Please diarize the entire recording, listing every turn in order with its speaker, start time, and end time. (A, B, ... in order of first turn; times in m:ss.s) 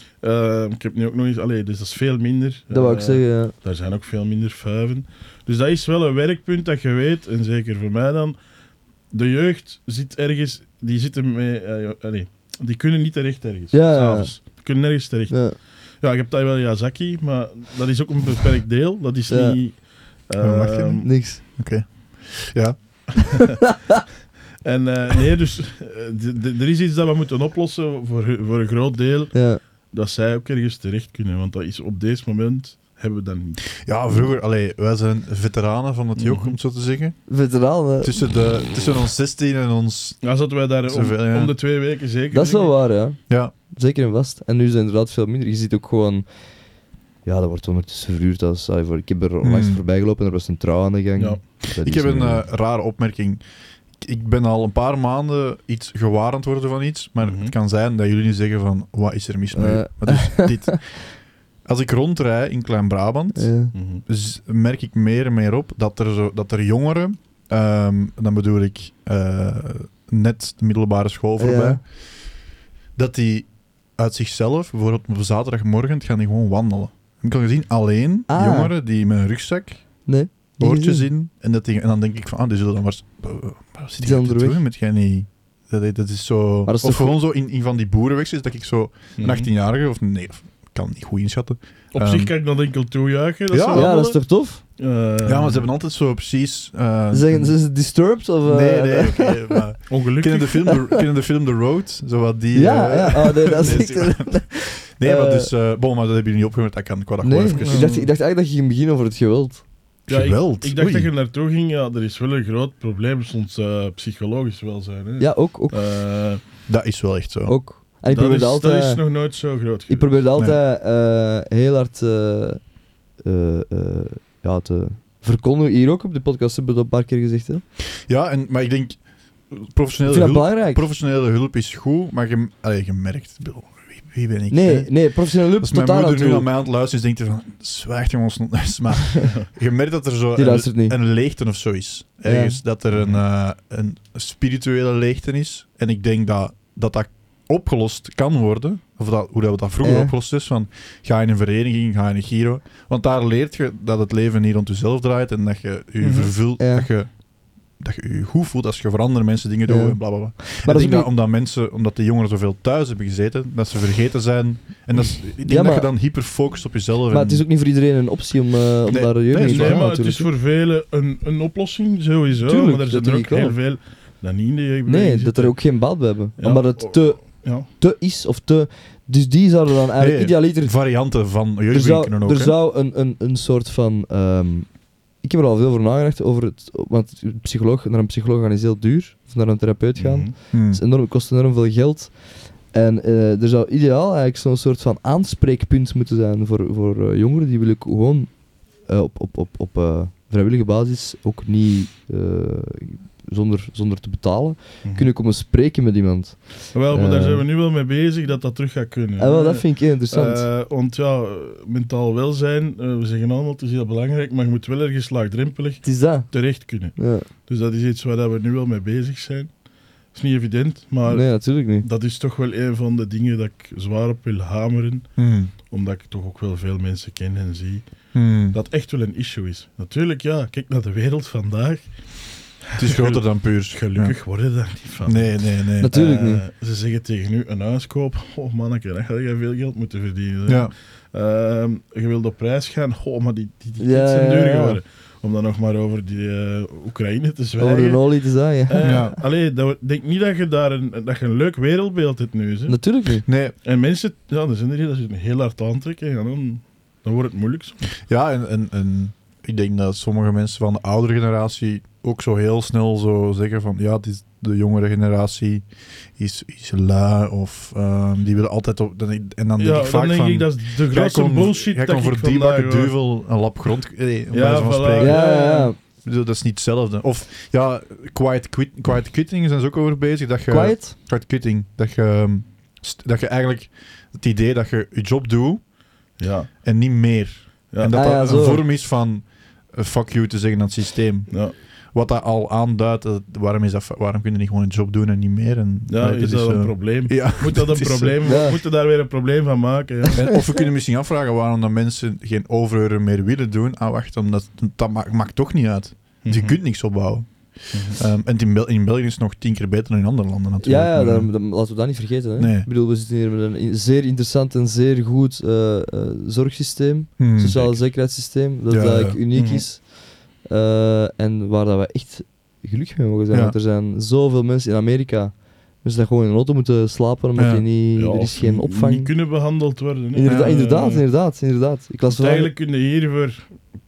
0:00.1-0:08.4 A
0:02.7-0:03.5 B
0:09.1-0:21.1 A
0:13.7-0:14.6 B
0:15.3-0:15.6 B
0:19.3-0:19.6 B
0:20.4-0:23.4 C
0:21.0-0:21.4 B
0:24.6-0:33.8 A
0:29.3-0:29.6 B
0:33.8-0:37.2 C
0:36.2-0:36.5 A
0:37.3-0:38.2 B
0:38.0-0:40.2 C
0:40.2-0:42.8 A
0:40.9-0:41.5 C
0:42.3-0:46.4 B
0:47.2-0:52.4 B
0:49.4-0:49.8 C
0:51.2-0:51.4 A
0:51.7-0:53.4 C
0:54.0-1:12.4 C
0:57.2-0:57.5 A
0:59.5-1:00.8 B
1:03.3-1:03.7 B
1:03.7-1:04.0 A
1:11.4-1:11.8 B
1:13.0-1:20.0 C
1:18.3-1:18.7 B
1:20.0-1:21.0 B
1:20.6-1:32.3 C
1:24.0-1:24.6 B
1:26.7-1:27.1 B
1:29.2-1:29.5 A
1:31.9-1:35.7 A
1:33.5-1:33.9 C
1:33.7-1:34.6 B
1:35.2-1:37.6 C
1:37.1-1:39.6 B
1:38.4-1:47.9 C
1:39.9-1:40.7 A
1:40.7-1:41.0 B
1:42.5-1:45.5 B
1:47.2-1:49.6 B
1:47.5-1:48.1 A
1:50.1-1:51.1 C
1:50.1-1:56.4 A
1:55.2-1:55.8 B
1:56.7-1:57.6 C
1:57.5-1:59.1 B
1:58.1-2:00.2 A
1:59.9-2:07.6 B
2:08.0-2:47.4 C
2:10.0-2:10.8 B
2:14.5-2:16.5 B
2:20.4-2:21.0 B
2:22.2-2:22.6 B
2:22.9-2:23.2 A
2:29.8-2:30.1 B
2:36.0-2:36.3 A
2:36.6-2:36.9 B
2:39.7-2:41.1 B
2:45.4-2:45.9 B
2:47.1-2:50.3 B
2:48.9-2:49.9 C
2:49.4-2:57.7 A
2:52.4-2:53.6 B
2:54.9-3:01.0 B
3:00.0-3:02.6 C
3:01.7-3:27.4 B
3:10.0-3:10.3 A
3:10.5-3:10.8 C
3:24.8-3:25.1 A
3:26.7-4:12.8 A
3:29.2-3:30.5 B
3:35.8-3:37.3 B
3:41.0-3:41.8 B
3:45.2-3:45.5 C
3:48.1-3:48.6 C
3:52.8-3:54.2 C
3:55.0-3:55.9 C
3:55.8-3:56.4 B
4:00.4-4:00.7 C
4:03.8-4:04.8 B
4:07.6-4:09.1 B
4:08.8-4:09.2 C
4:12.7-4:13.2 B
4:13.2-4:13.5 C
4:13.6-4:17.9 A
4:18.1-4:25.6 C
4:26.2-4:35.2 C
4:29.6-4:33.0 A
4:34.3-4:35.7 A
4:35.0-4:35.8 B
4:36.0-4:45.7 C
4:40.5-4:40.9 B
4:46.2-4:46.5 A
4:46.6-4:58.2 C
4:47.7-4:48.0 A
4:47.9-4:48.6 B
4:55.9-5:00.4 A
4:58.2-4:58.6 B
5:00.1-5:11.3 C
5:06.2-5:06.6 A
5:07.7-5:08.0 A
5:10.6-5:29.1 B
5:12.4-5:12.7 C
5:17.2-5:17.9 C
5:18.7-5:19.2 C
5:19.3-5:19.6 A
5:27.4-5:27.6 C
5:27.9-5:31.0 A
5:30.1-5:32.5 B
5:30.2-5:30.5 C
5:32.0-5:33.6 A